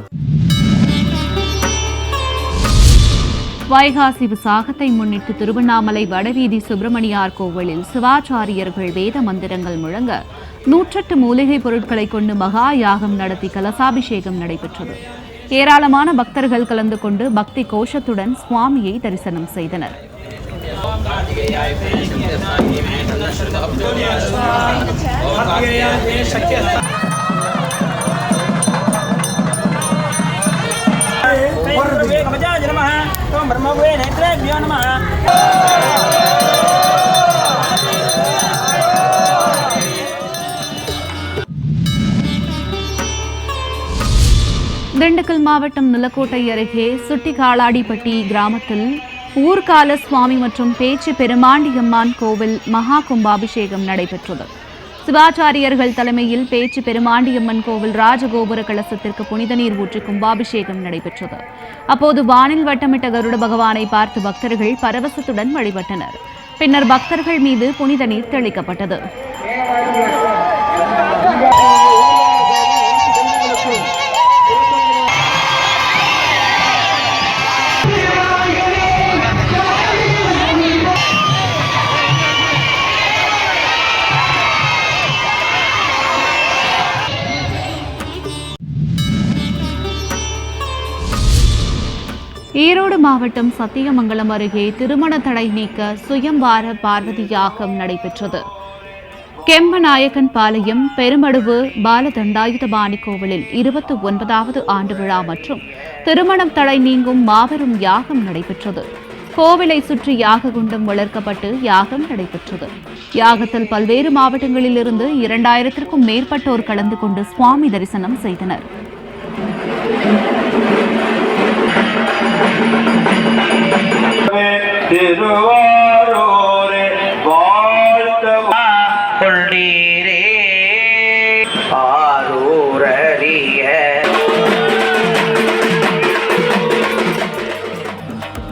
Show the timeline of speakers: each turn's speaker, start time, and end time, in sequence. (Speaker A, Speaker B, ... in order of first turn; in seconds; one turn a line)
Speaker A: 3.7-10.2
Speaker A: 10.7-15.0
Speaker A: 15.5-20.0
Speaker B: 31.5-34.9
Speaker A: 45.0-54.5
Speaker A: 55.0-69.0
Speaker A: 92.6-98.4
Speaker A: 99.5-108.8
Speaker A: 109.3-118.7
Speaker C: 124.3-129.9
Speaker B: 129.5-134.1
Speaker C: 131.7-133.0